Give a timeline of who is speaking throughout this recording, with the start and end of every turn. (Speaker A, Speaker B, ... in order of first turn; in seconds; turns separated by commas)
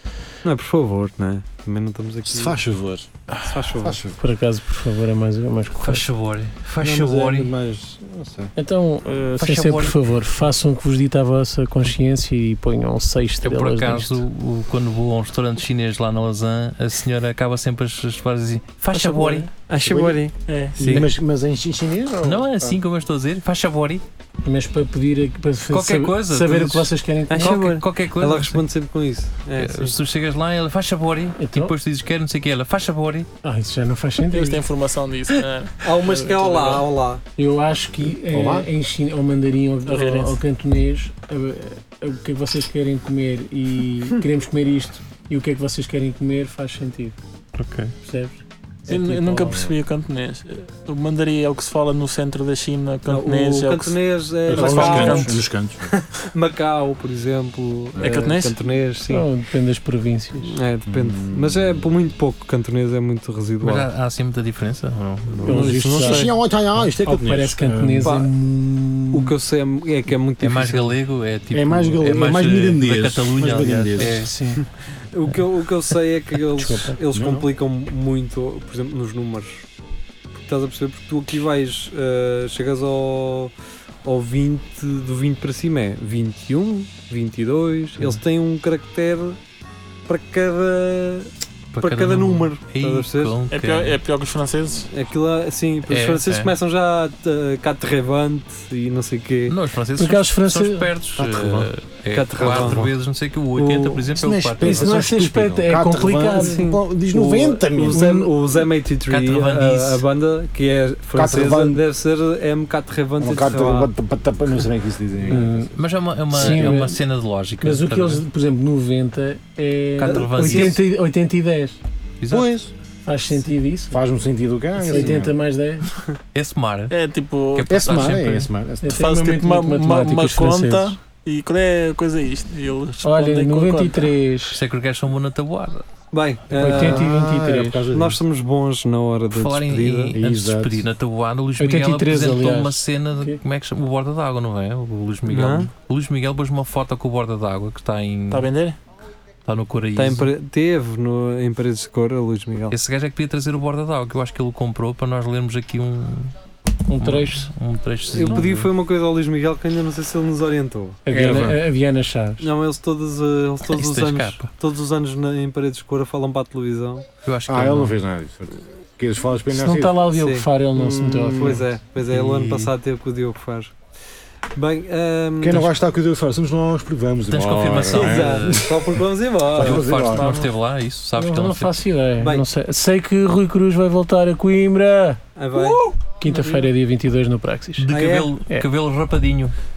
Speaker A: 0.4-2.6, Speaker B: 2.2-3.3, Speaker A: 3.4-4.0, Speaker B: 3.8-4.2, Speaker C: 4.2-6.1, Speaker D: 5.7-7.5, Speaker B: 6.8-8.5, Speaker C: 8.6-14.2, Speaker D: 9.4-10.0, Speaker D: 13.4-19.5, Speaker E: 18.9-19.5, Speaker A: 19.7-21.0, Speaker B: 19.8-20.2, Speaker E: 20.5-21.0, Speaker B: 20.8-22.8, Speaker D: 20.8-21.1, Speaker D: 22.2-24.0, Speaker C: 24.4-27.7, Speaker D: 25.7-28.6, Speaker A: 27.3-29.9, Speaker D: 29.6-33.3, Speaker C: 31.4-31.7, Speaker C: 33.4-34.6, Speaker E: 34.3-36.8, Speaker A: 35.8-37.2, Speaker C: 37.4-47.1, Speaker B: 38.3-38.7, Speaker E: 39.9-40.4, Speaker D: 47.6-47.9, Speaker C: 48.0-49.6, Speaker E: 48.9-54.0, Speaker A: 53.0-59.3, Speaker E: 54.5-55.4, Speaker B: 54.5-55.9, Speaker B: 58.0-58.2, Speaker E: 58.0-58.6, Speaker C: 59.1-60.6, Speaker A: 60.4-63.9, Speaker B: 60.9-61.9, Speaker D: 63.6-65.5, Speaker C: 65.4-66.3, Speaker A: 65.4-66.3, Speaker E: 65.6-65.8, Speaker B: 66.0-68.1, Speaker C: 67.0-69.3, Speaker A: 68.0-68.3, Speaker A: 69.1-71.0, Speaker D: 70.4-74.3, Speaker B: 71.5-74.2, Speaker C: 74.0-74.6, Speaker A: 75.1-79.7, Speaker C: 76.6-77.0, Speaker B: 77.1-77.5, Speaker A: 80.5-83.5, Speaker A: 84.0-89.4, Speaker A: 90.1-93.3, Speaker D: 91.8-94.0, Speaker E: 93.5-94.9, Speaker A: 94.9-99.5, Speaker D: 95.9-96.5, Speaker D: 99.5-105.0, Speaker C: 100.0-100.9, Speaker B: 101.2-101.7, Speaker A: 102.1-102.8, Speaker B: 102.4-102.9, Speaker A: 103.6-104.1, Speaker B: 104.2-108.3, Speaker C: 104.6-106.7, Speaker A: 106.3-113.9, Speaker D: 109.1-110.0, Speaker B: 111.1-111.8, Speaker B: 113.2-115.7, Speaker C: 115.3-115.7, Speaker D: 115.8-118.2, Speaker C: 116.3-117.0, Speaker B: 116.3-116.8, Speaker C: 117.6-121.8, Speaker D: 120.0-120.8, Speaker D: 122.2-122.6, Speaker B: 122.3-122.7, Speaker C: 123.0-124.0, Speaker B: 123.9-125.3, Speaker C: 124.8-125.9, Speaker D: 126.3-126.9, Speaker E: 126.9-127.7, Speaker D: 127.5-128.5, Speaker B: 127.7-129.1, Speaker C: 128.8-130.9, Speaker E: 129.0-134.1, Speaker C: 133.0-134.6, Speaker D: 134.5-135.8, Speaker A: 136.1-140.2, Speaker C: 136.6-137.8, Speaker B: 136.7-138.2, Speaker D: 139.3-148.5, Speaker B: 140.1-140.8, Speaker C: 141.6-143.4, Speaker A: 145.3-145.7, Speaker E: 148.3-148.8, Speaker D: 149.4-150.3, Speaker A: 149.9-152.8, Speaker D: 152.7-156.3, Speaker C: 156.9-157.5, Speaker D: 157.0-158.7, Speaker A: 158.1-161.0, Speaker C: 161.1-162.4, Speaker B: 161.1-161.6, Speaker A: 162.4-167.1, Speaker D: 163.7-164.5, Speaker D: 167.2-168.0, Speaker B: 167.5-170.0, Speaker C: 169.5-171.7, Speaker A: 170.1-173.7, Speaker D: 172.0-172.7, Speaker A: 174.5-175.7, Speaker B: 175.4-180.3, Speaker D: 177.3-178.8, Speaker A: 177.9-179.9, Speaker D: 179.5-181.8, Speaker E: 180.1-180.5, Speaker C: 181.2-185.2, Speaker A: 182.2-182.5, Speaker A: 185.3-185.8, Speaker C: 186.0-187.9, Speaker E: 186.3-186.7, Speaker D: 187.8-189.5, Speaker A: 187.9-188.3